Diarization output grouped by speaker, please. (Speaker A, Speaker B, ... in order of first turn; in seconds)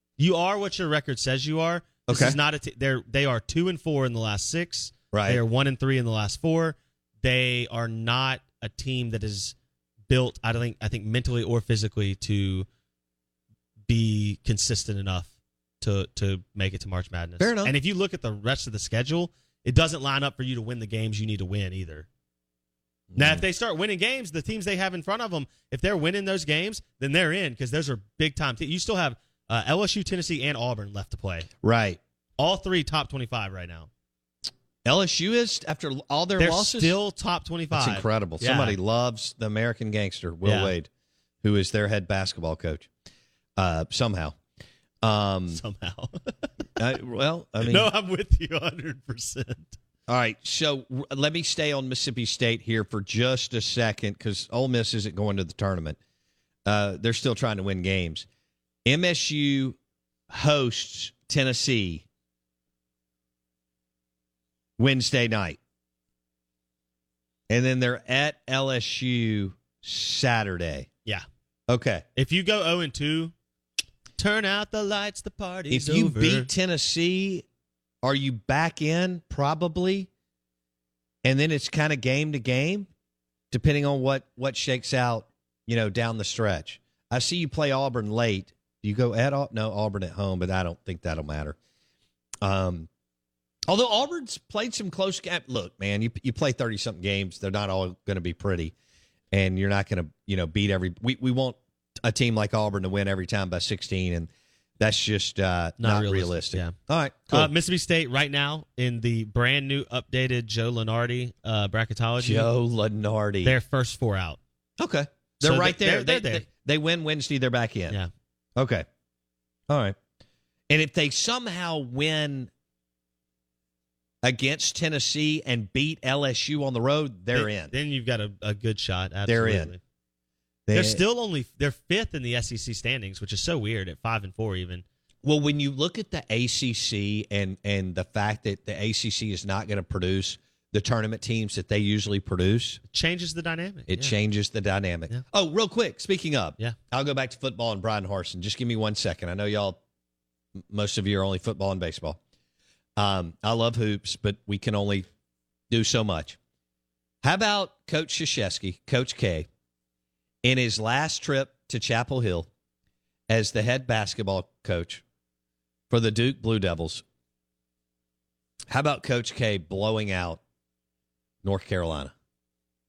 Speaker A: 0.2-9.6, 10.1-12.7, 13.9-22.1, 23.2-31.5, 32.4-33.9, 36.4-38.8, 40.5-40.7, 45.5-46.4, 47.6-49.8, 72.2-73.3, 74.2-76.5, 105.8-106.8, 107.3-112.5, 113.4-114.4, 115.4-116.5, 127.3-129.8, 130.7-134.8, 142.9-144.2
Speaker B: 2.1-2.4, 5.1-5.4, 17.4-17.8, 23.1-23.4, 31.6-32.0, 34.9-37.0, 37.7-40.9, 41.4-42.9, 43.6-44.4, 45.0-45.6, 46.8-47.9, 50.1-56.0, 56.6-58.3, 58.9-59.8, 60.3-62.0, 64.8-65.6, 67.5-70.9, 71.7-72.1, 75.7-77.5, 78.0-80.1, 81.2-82.9, 83.5-91.6, 92.4-92.9, 93.7-98.7, 99.3-107.5, 112.2-113.6, 114.8-118.0, 118.6-118.9, 119.7-120.0, 120.7-122.5, 124.2-127.7, 129.3-129.7, 130.7-131.0, 135.2-142.8, 143.9-149.8, 150.7-152.2, 153.0-155.1, 155.7-156.4, 157.2-159.5, 160.4-162.5, 163.3-165.0, 165.9-167.0, 168.7-170.4, 171.4-172.1